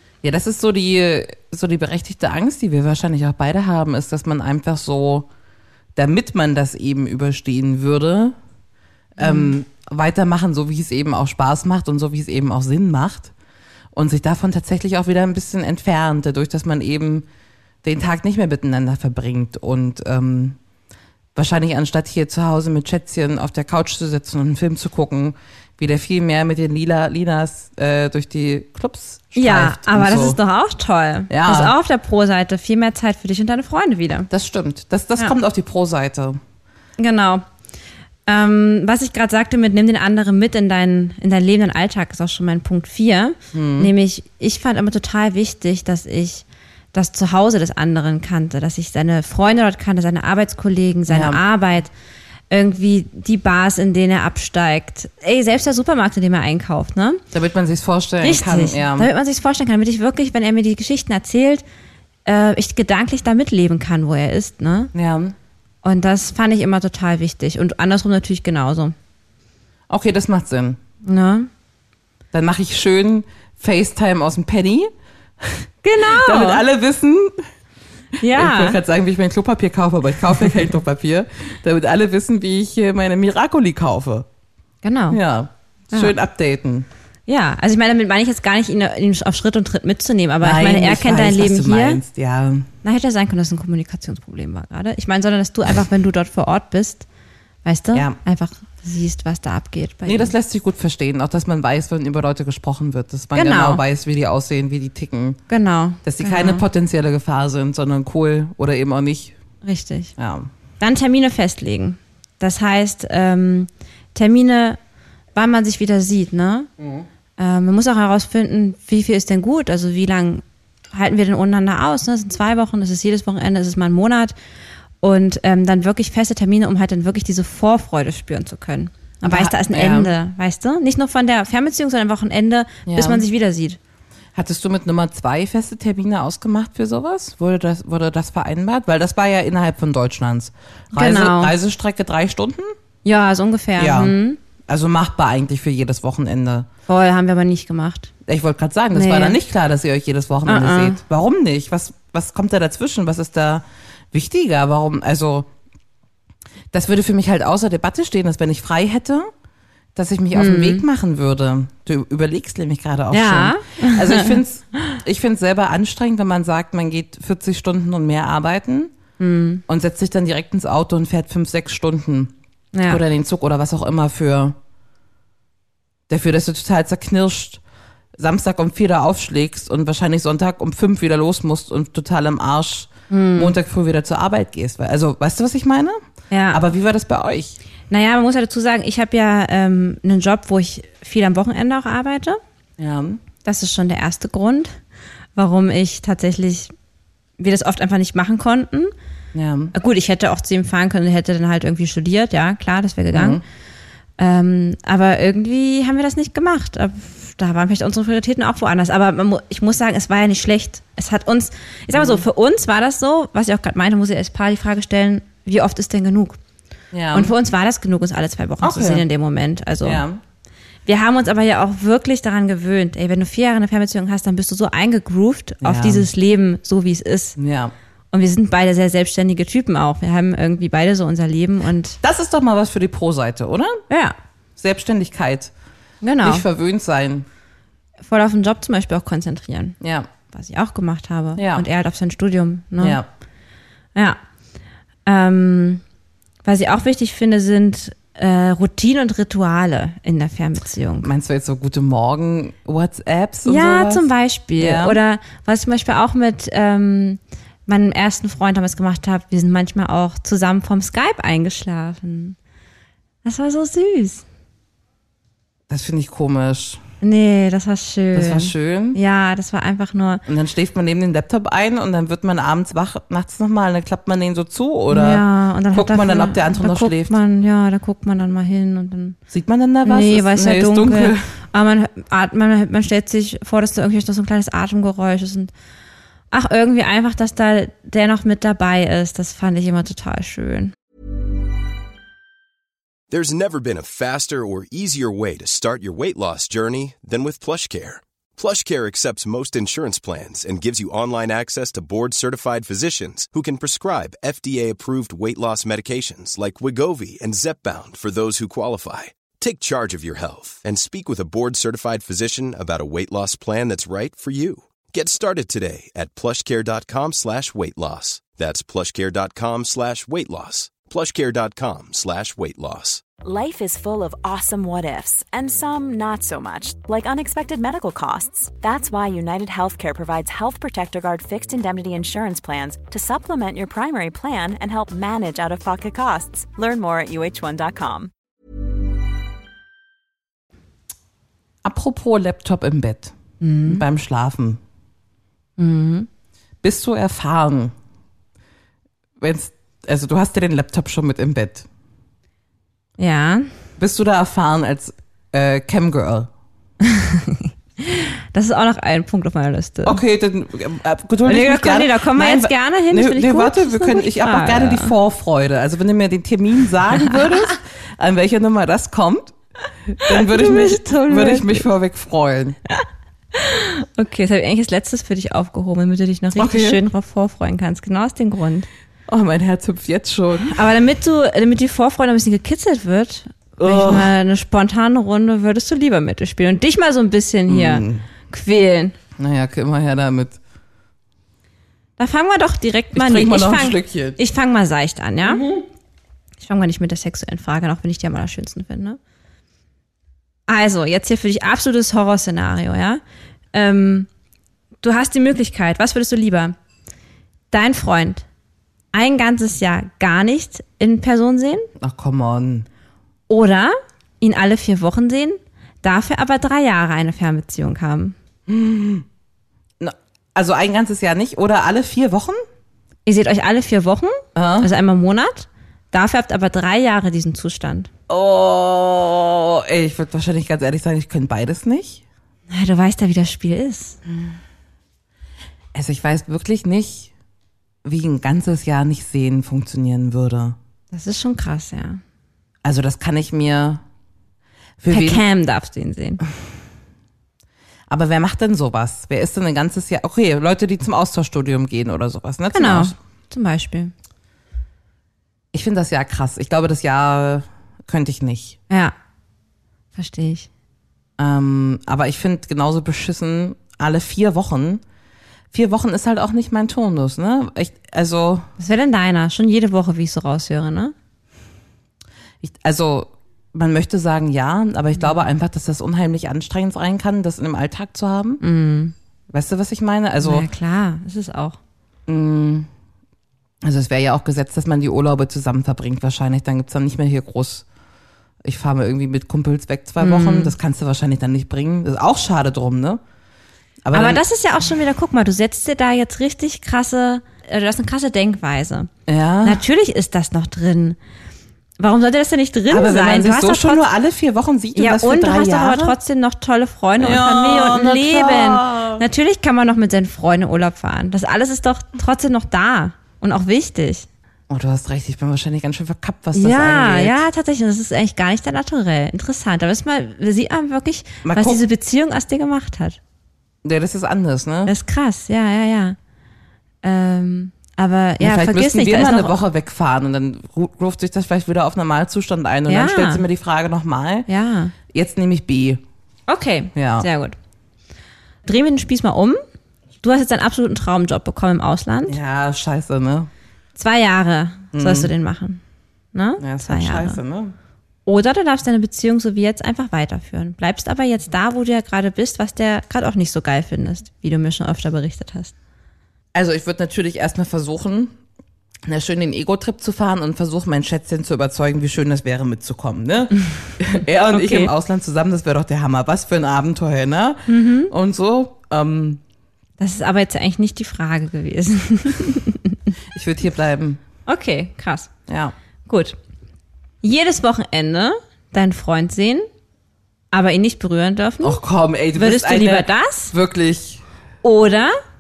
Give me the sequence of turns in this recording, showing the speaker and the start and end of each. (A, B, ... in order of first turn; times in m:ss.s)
0:00.2-0:05.3 A
0:06.0-0:08.4 A
0:09.2-0:13.3 A
0:09.2-0:09.5 B
0:13.9-0:17.3 A
0:17.8-0:20.6 A
0:21.4-0:30.4 A
0:29.4-0:34.3 B
0:31.3-0:31.8 A
0:34.3-0:36.4 A
0:37.0-0:37.4 B
0:38.3-0:51.9 B
0:43.5-0:43.9 A
0:51.1-0:51.4 A
0:52.5-0:57.2 B
0:57.3-0:59.1 A
0:58.2-1:01.6 B
1:02.3-1:04.9 B
1:04.9-1:05.4 A
1:05.8-1:09.0 B
1:09.9-1:10.8 A
1:11.0-1:11.5 B
1:12.3-1:17.4 A
1:15.8-1:16.6 B
1:18.2-1:18.8 B
1:18.2-1:24.3 A
1:24.8-1:25.2 B
1:25.1-1:26.9 A
1:27.3-1:32.0 B
1:30.4-1:32.7 A
1:32.8-1:37.1 B
1:37.6-1:40.3 B
1:40.1-1:45.4 A
1:43.4-1:43.8 B
1:45.5-1:46.6 B
1:46.0-1:49.4 A
1:49.6-1:50.1 B
1:50.2-1:50.5 A
1:50.8-1:54.8 B
1:55.4-1:56.7 B
1:57.4-2:04.3 B
2:05.0-2:13.8 B
2:09.2-2:10.1 A
2:12.9-2:13.2 A
2:14.3-2:22.7 A
2:20.9-2:21.5 B
2:23.0-2:24.4 B
2:23.8-2:26.7 A
2:26.9-2:28.1 B
2:28.3-2:35.5 A
2:28.9-2:29.4 B
2:30.5-2:31.0 B
2:36.7-2:39.3 A
2:40.0-2:48.9 A
2:40.3-2:40.8 B
2:43.1-2:44.4 B
2:49.2-2:49.6 B
2:49.7-2:52.3 A
2:52.7-2:53.0 B
2:52.9-2:54.6 A
2:56.1-2:57.6 A
2:58.2-3:06.0 A
3:03.1-3:03.6 B
3:06.3-3:06.6 B
3:06.5-3:07.6 A
3:07.9-3:12.4 B
3:12.8-3:13.2 A
3:13.4-3:14.8 B
3:15.4-3:16.7 B
3:17.4-3:18.9 B
3:19.3-3:19.7 A
3:19.7-3:23.4 B
3:23.1-3:23.4 A
3:24.2-3:36.4 B
3:31.9-3:32.2 A
3:36.9-3:37.3 A
3:37.1-3:40.0 B
3:38.6-3:39.1 A
3:39.8-3:40.2 A
3:40.9-3:47.4 B
3:45.6-3:46.1 A
3:47.4-3:47.7 A
3:48.1-3:52.0 B
3:52.0-3:53.8 A
3:53.9-3:54.2 B
3:54.6-3:55.5 A
3:56.0-3:56.5 B
3:56.2-3:57.3 A
3:58.0-3:59.8 B
3:59.8-4:00.1 A
4:00.3-4:03.0 B
4:01.4-4:01.7 A
4:02.8-4:03.1 A
4:04.0-4:04.2 B
4:05.1-4:05.8 B
4:06.4-4:11.1 B
4:11.0-4:14.1 A
4:13.5-4:22.4 B
4:14.6-4:15.0 A
4:23.2-4:24.2 B
4:25.7-4:26.8 A
4:27.0-4:30.2 B
4:28.1-4:29.0 A
4:30.3-4:37.2 A
4:34.9-4:39.2 B
4:39.3-4:41.3 A
4:39.8-4:45.5 B
4:46.3-4:50.7 B
4:53.1-5:23.0 C
5:23.2-5:38.1 D
5:41.6-5:43.1 A
5:43.4-5:43.8 B
5:43.7-5:44.6 A
5:45.6-5:46.1 B
5:46.6-5:47.7 A
5:49.2-5:51.7 A
5:53.0-5:53.5 B
5:53.8-5:56.3 A
5:56.8-6:00.0 B
5:59.8-6:09.4 A
6:01.2-6:04.9 B
6:09.9-6:12.6 A
6:10.0-6:11.7 B
6:13.4-6:18.7 B
6:16.4-6:16.8 A
6:19.1-6:20.6 A
6:20.5-6:29.0 B
6:23.6-6:24.1 A
6:27.5-6:28.1 A
6:29.2-6:30.4 A
6:32.0-6:35.4 B
6:32.9-6:34.2 A
6:35.2-6:35.6 A
6:36.4-6:39.0 B
6:40.5-6:43.0 B
6:43.5-6:44.1 B
6:44.8-6:46.6 B
6:47.5-6:48.2 B
6:48.9-6:51.7 B
6:51.8-6:52.7 A
6:53.3-6:58.2 B
6:58.5-6:59.1 A
6:59.8-7:02.4 A
7:03.1-7:07.9 B
7:04.4-7:04.7 A
7:08.1-7:12.0 A
7:12.5-7:14.0 B
7:14.1-7:14.4 A
7:15.7-7:17.1 A
7:17.8-7:20.6 A
7:20.9-7:22.0 B
7:22.6-7:23.8 A
7:24.8-7:25.2 A
7:24.9-7:26.2 B
7:27.9-7:33.0 A
7:32.5-7:33.9 B
7:35.5-7:38.6 A
7:40.0-7:40.5 B
7:41.2-7:44.8 A
7:45.5-7:48.5 A
7:48.6-7:50.9 B
7:52.4-7:58.4 A
7:58.4-7:58.9 B
7:59.3-8:00.5 A
8:00.2-8:01.6 B
8:02.1-8:02.7 A
8:03.6-8:07.7 A
8:08.4-8:13.0 A
8:10.0-8:10.6 B
8:13.8-8:14.2 A
8:13.9-8:18.9 B
8:19.1-8:19.6 A
8:19.4-8:21.0 B
8:21.8-8:23.8 B
8:22.7-8:26.0 A
8:24.8-8:34.1 B
8:27.0-8:29.0 A
8:34.5-8:37.2 A
8:36.3-8:43.0 B
8:41.2-8:41.6 A
8:43.6-8:44.7 A
8:44.7-8:46.0 B
8:46.8-8:49.3 B
8:48.2-8:54.3 A
8:52.7-8:53.2 B
8:54.3-8:54.7 B
8:54.9-8:55.8 A
8:56.3-8:57.4 B
8:56.8-8:57.1 A
8:58.5-8:59.4 B
9:00.0-9:02.2 B
9:02.1-9:03.3 A
9:03.8-9:05.6 B
9:04.7-9:05.1 A
9:06.1-9:07.2 B
9:06.4-9:07.6 A
9:08.1-9:15.5 B
9:16.3-9:18.2 A
9:18.9-9:29.2 A
9:24.3-9:24.7 B
9:27.5-9:27.9 B
9:29.8-9:32.8 B
9:33.1-9:34.0 A
9:34.3-9:35.1 B
9:35.3-9:35.5 A
9:35.9-9:36.2 B
9:37.0-9:39.5 B
9:40.3-9:41.6 B
9:41.4-9:44.0 A
9:42.2-9:43.3 B
9:44.4-9:44.9 B